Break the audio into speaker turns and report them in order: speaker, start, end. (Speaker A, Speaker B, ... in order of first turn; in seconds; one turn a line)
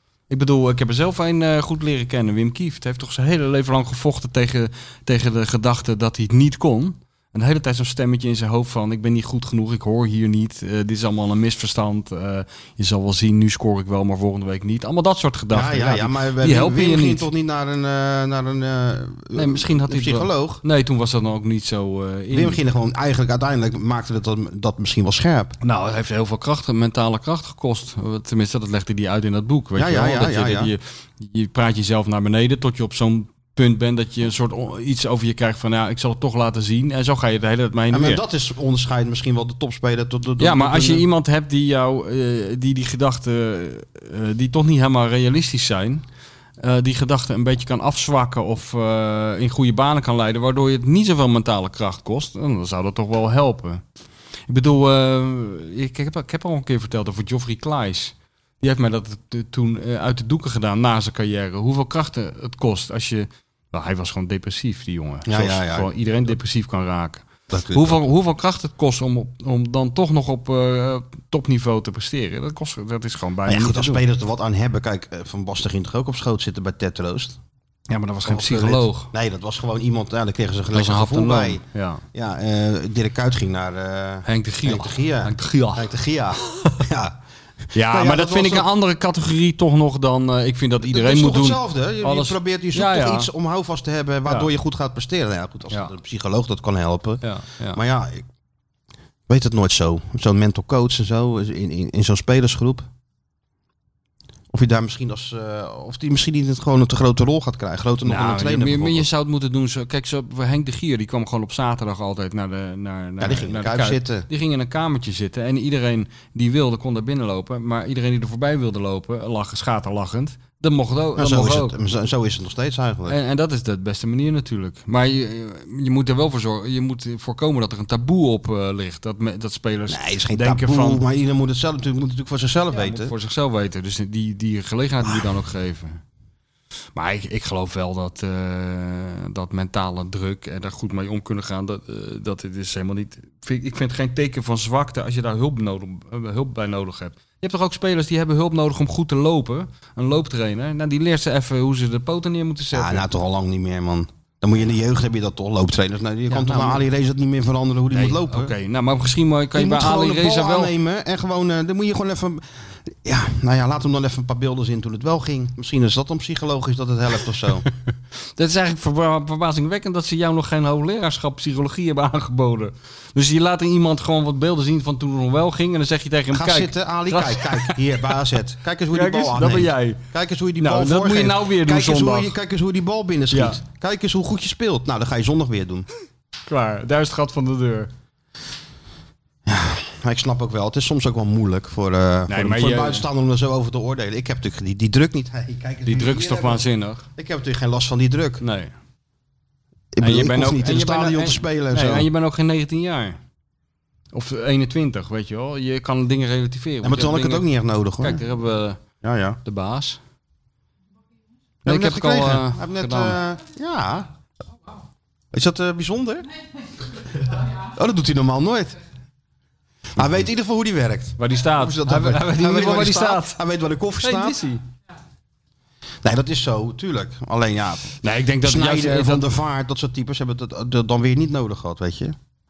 Speaker A: 0.3-17.3
Speaker B: 15.5-20.6
Speaker A: 19.4-22.6
Speaker B: 22.3-25.6
Speaker A: 25.6-38.2
Speaker B: 29.8-30.7
Speaker B: 37.9-41.1
Speaker A: 40.4-46.0
Speaker A: 46.6-53.8
Speaker A: 54.5-74.0
Speaker B: 65.3-65.9
Speaker B: 67.5-68.0
Speaker B: 73.5-77.4
Speaker A: 77.9-79.1
Speaker B: 78.2-87.2
Speaker A: 80.7-82.0
Speaker A: 84.3-85.9
Speaker B: 87.7-88.7
Speaker A: 87.7-93.3
Speaker B: 90.8-98.3
Speaker A: 97.2-97.8
Speaker B: 99.3-102.9
Speaker B: 104.5-109.1
Speaker A: 108.0-121.8
Speaker B: 113.2-114.3
Speaker B: 121.2-123.2
Speaker A: 123.1-131.0
Speaker B: 129.9-133.1
Speaker A: 132.7-136.0
Speaker A: 136.9-153.1
Speaker B: 152.7-158.6
Speaker A: 156.3-156.8
Speaker A: 157.9-160.7
Speaker B: 159.5-167.7
Speaker A: 168.4-177.8
Speaker B: 176.3-185.9
Speaker A: 178.9-180.0
Speaker A: 180.6-182.3
Speaker A: 183.3-183.6
Speaker A: 186.5-187.9
Speaker B: 189.5-196.6
Speaker A: 192.3-193.1
Speaker A: 195.8-197.1
Speaker B: 197.2-198.4
Speaker A: 198.4-198.7
Speaker B: 199.9-202.1
Speaker A: 200.0-203.2
Speaker A: 204.1-207.5
Speaker B: 206.8-208.2
Speaker A: 208.0-208.8
Speaker B: 209.0-209.4
Speaker A: 209.4-210.0
Speaker B: 211.7-214.1
Speaker A: 211.7-213.2
Speaker B: 215.3-216.3
Speaker B: 217.5-218.8
Speaker B: 220.0-224.4
Speaker A: 221.2-223.4
Speaker A: 224.0-224.6
Speaker B: 226.0-232.2
Speaker A: 228.0-229.3